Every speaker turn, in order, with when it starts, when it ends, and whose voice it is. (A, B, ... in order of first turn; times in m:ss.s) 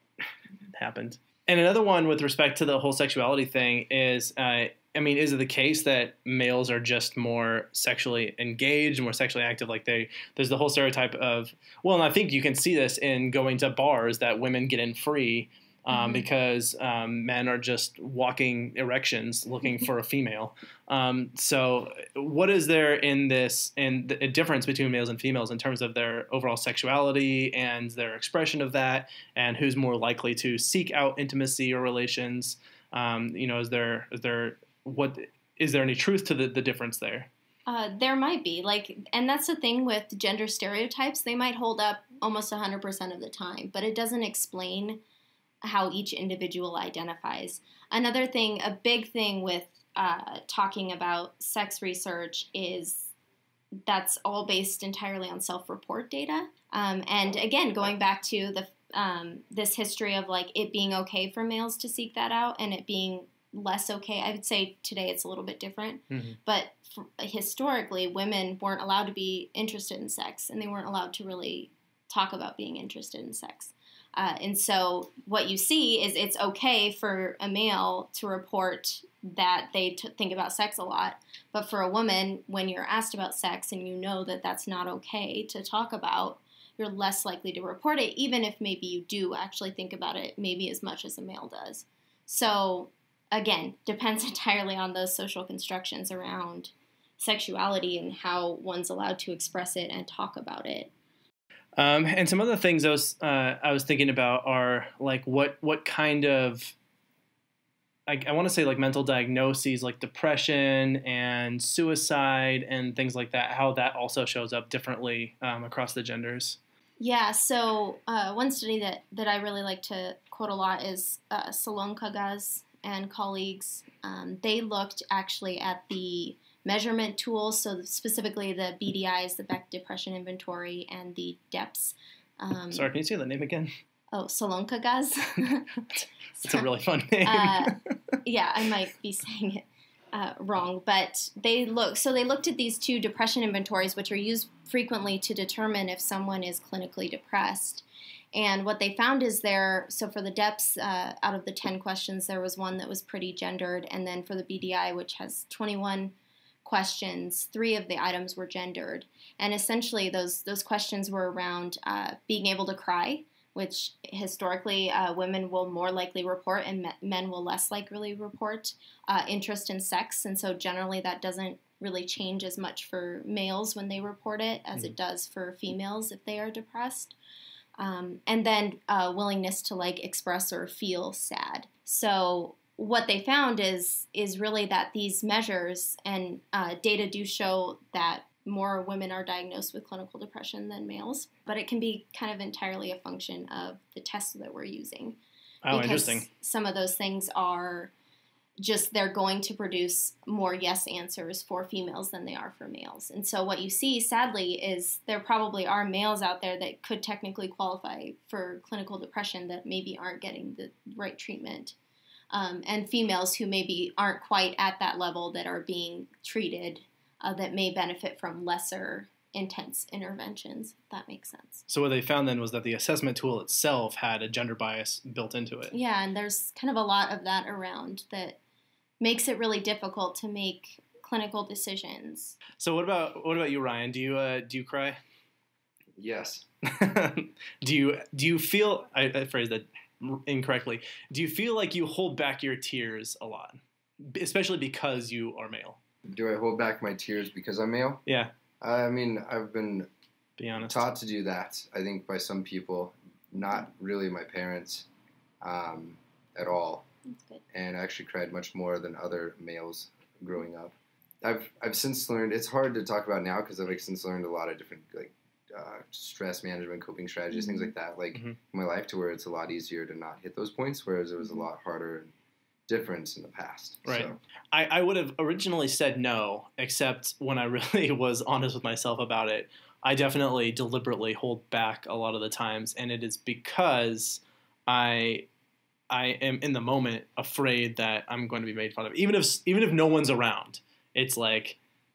0:00.7-0:37.3 A
0:15.9-0:16.3 B
0:37.7-0:45.0 B
0:45.6-0:53.1 B
0:53.9-1:40.9 B
1:06.1-1:06.4 A
1:41.8-1:46.7 A
1:48.1-1:56.6 A
1:57.0-2:12.9 B
2:12.7-2:13.7 A
2:14.1-2:15.7 B
2:15.9-2:17.8 A
2:16.4-2:16.7 B
2:17.2-2:57.2 B
2:57.8-3:15.2 B
3:15.6-3:16.3 A
3:15.7-3:17.9 B
3:18.6-3:31.8 B
3:32.3-3:41.7 B
3:41.7-3:45.7 A
3:45.7-3:48.4 B
3:49.0-3:52.4 B
3:52.6-3:55.0 A
3:56.0-3:56.5 C
3:56.7-4:05.8 A
4:06.1-4:08.0 C
4:08.1-4:08.3 A
4:08.6-4:09.9 C
4:10.4-4:10.9 A
4:10.6-4:14.9 C
4:15.4-4:16.9 C
4:17.1-4:17.4 B
4:17.5-4:32.1 C
4:27.3-4:27.7 B
4:32.7-4:34.2 C
4:33.8-4:45.3 A
4:45.9-4:51.6 A